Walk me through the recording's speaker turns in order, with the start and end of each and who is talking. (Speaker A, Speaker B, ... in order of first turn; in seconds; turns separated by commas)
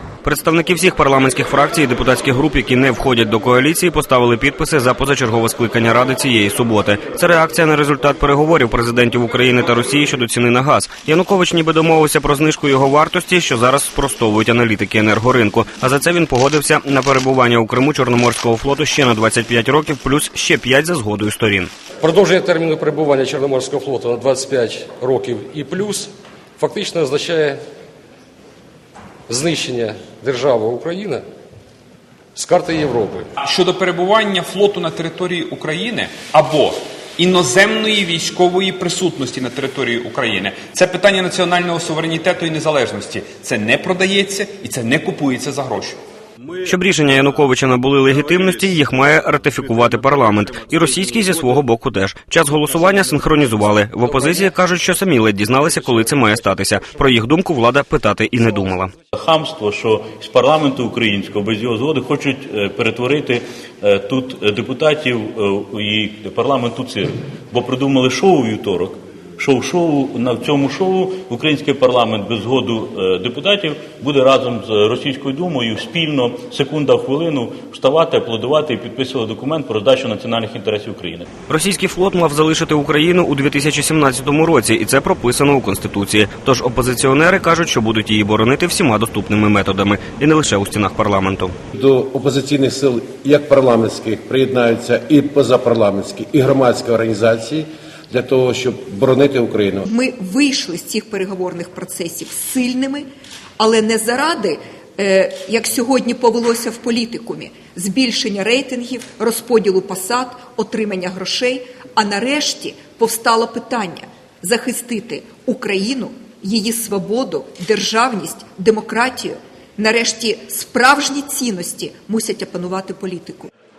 Speaker A: 0.2-21.7, Speaker B: 22.0-27.6, Speaker B: 29.3-31.2, Speaker B: 32.4-33.3, Speaker C: 33.4-46.0, Speaker A: 46.6-58.9, Speaker D: 59.1-81.3, Speaker A: 81.5-91.5, Speaker E: 91.7-99.9, Speaker F: 99.9-103.0, Speaker F: 103.6-123.5